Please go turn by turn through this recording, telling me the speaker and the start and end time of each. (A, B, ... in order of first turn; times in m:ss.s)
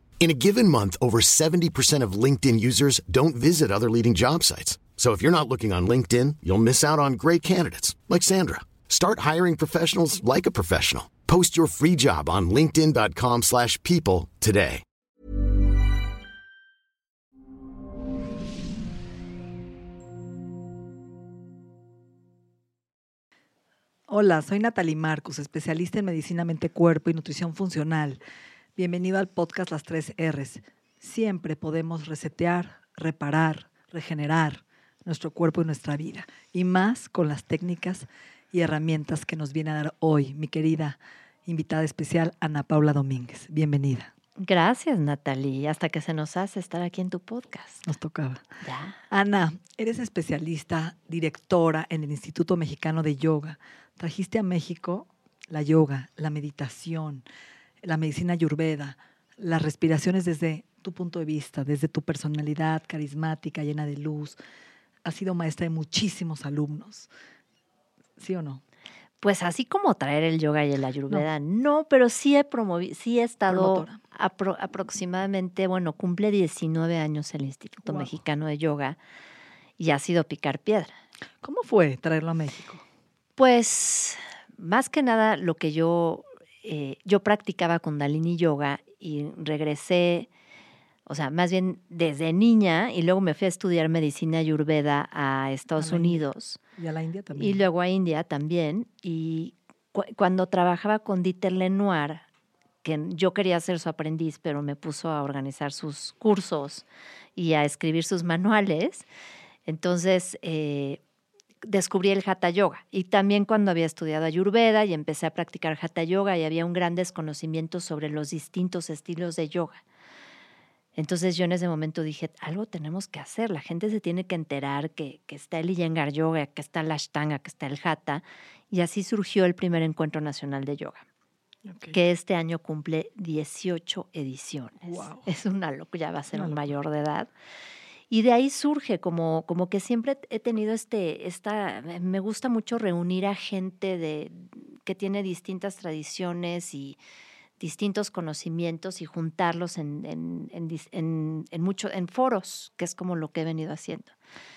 0:00.2-0:14.8 A
0:24.1-0:28.2 B
0:28.8-0:44.1 B
0:44.4-0:47.8 C
0:47.8-0:48.5 B
0:48.6-0:49.0 C
0:49.1-0:57.2 B
0:57.8-1:04.4 B
1:05.0-1:07.1 B
1:08.2-1:08.6 B
1:09.2-1:19.0 C
1:13.5-1:14.0 B
1:17.9-1:18.1 B
1:19.8-1:20.9 C
1:21.4-1:22.8 B
1:23.4-1:30.3 C
1:31.1-1:36.6 C
1:35.8-1:37.6 B
1:37.4-1:42.2 C
1:42.8-1:46.8 C
1:47.4-1:49.1 C
1:49.7-1:51.0 C
1:51.6-1:59.8 C
2:01.0-2:11.0 C
2:11.7-2:12.0 B
2:11.9-2:17.3 C
2:14.8-2:15.3 B
2:16.3-2:16.7 B
2:18.1-2:27.0 C
2:27.6-2:34.1 C